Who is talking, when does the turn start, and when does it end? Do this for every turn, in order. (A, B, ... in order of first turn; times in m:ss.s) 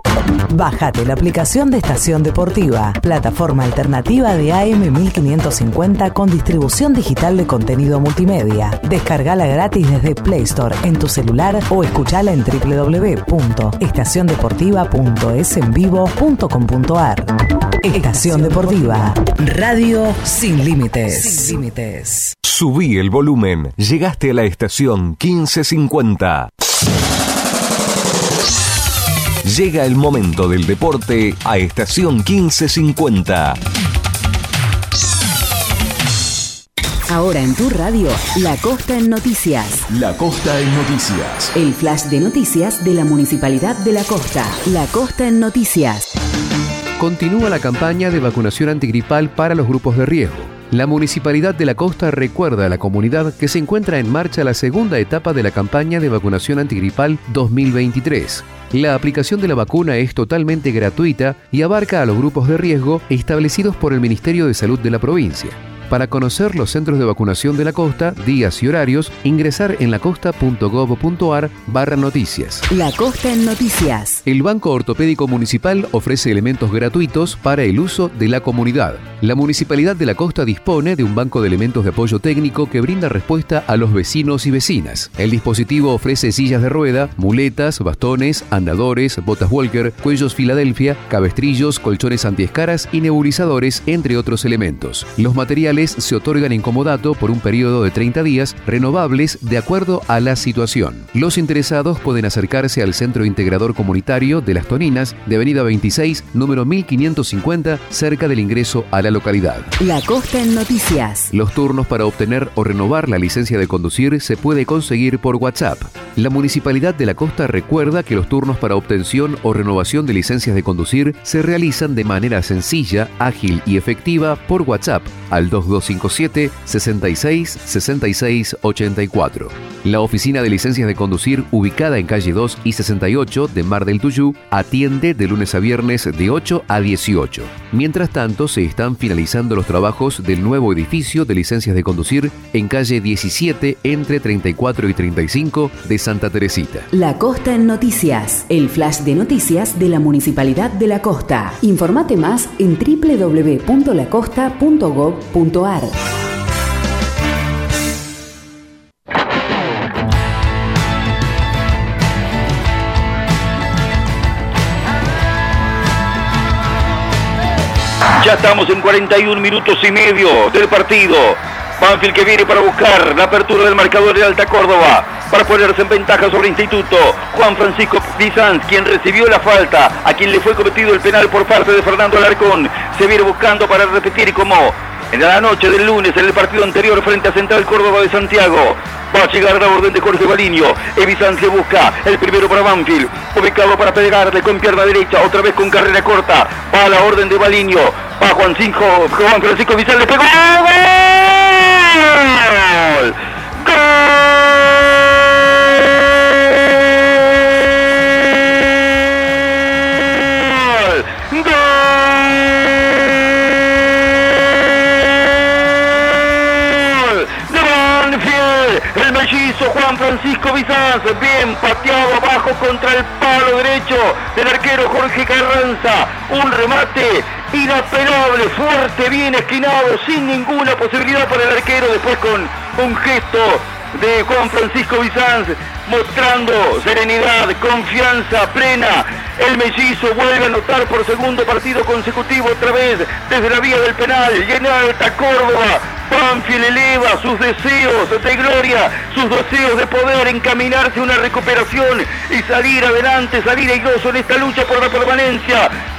0:00.5-0:17.3 A
0:17.8-0:22.3 A
0:22.4-0:26.5 B
0:29.4-0:33.6 B
0:37.1-0:39.8 C
0:40.0-0:41.5 B
0:41.6-0:46.0 C
0:47.0-1:12.7 D
1:12.7-1:14.2 C
1:14.2-1:49.7 D
1:49.8-1:51.3 C
1:51.3-2:26.9 D
2:26.9-2:35.9 C
2:48.2-3:24.4 E
3:30.2-3:32.6 E
3:36.2-4:15.7 E